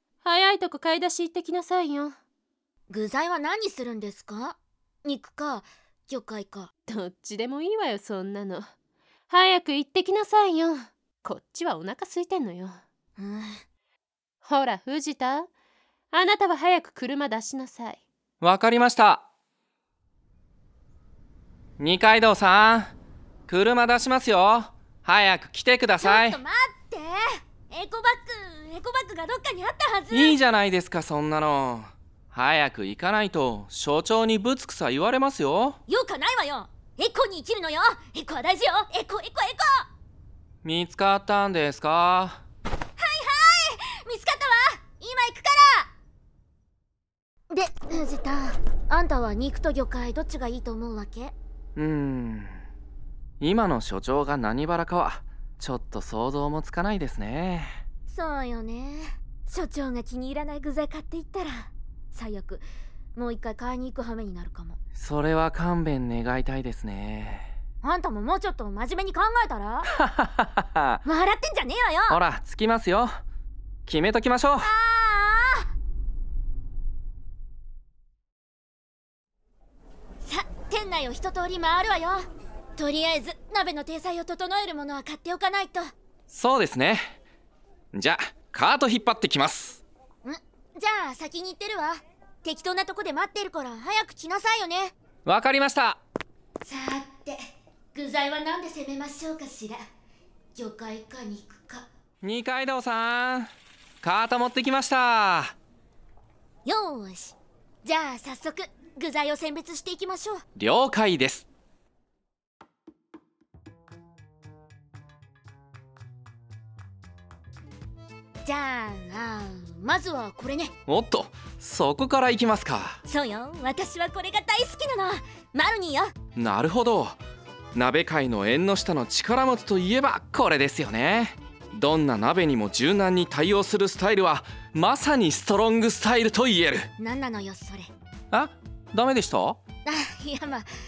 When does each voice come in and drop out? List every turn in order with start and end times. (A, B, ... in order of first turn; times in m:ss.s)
0:00.2-0:02.2 A
0:02.9-0:06.7 B
0:06.9-0:08.7 A
0:09.3-0:12.8 A
0:13.2-0:13.6 B
0:14.4-0:15.5 A
0:16.1-0:18.0 A
0:18.4-0:19.2 C
0:21.8-0:22.9 C
0:23.5-0:26.4 C
0:26.0-0:27.2 B
0:27.7-0:30.4 B
0:30.1-0:35.8 C
0:35.9-0:39.9 B
0:40.6-0:42.4 C
0:43.0-0:45.9 B
0:47.5-0:51.3 B
0:51.8-0:52.6 C
0:53.4-0:57.8 C
0:58.1-1:04.8 B
1:05.0-1:07.5 C
1:07.8-1:09.9 B
1:10.0-1:11.0 C
1:11.0-1:12.2 B
1:12.1-1:13.2 C
1:13.9-1:14.7 C
1:14.6-1:15.7 B
1:20.2-1:22.2 B
1:22.8-1:25.8 B
1:26.3-1:27.2 C
1:27.9-1:29.8 C
1:30.2-1:34.9 B
1:35.3-1:36.0 C
1:36.6-1:37.4 B
1:37.9-1:39.8 B
1:40.6-1:41.9 B
1:42.2-1:43.5 C
1:44.0-1:45.6 C
1:46.7-1:50.4 B
1:50.6-1:51.5 C
1:58.4-2:00.7 B
2:00.9-2:03.0 C
2:03.1-2:06.1 B
2:06.4-2:07.2 C
2:07.8-2:16.9 C
2:17.0-2:17.9 B
2:18.3-2:19.6 C
2:19.8-2:20.7 B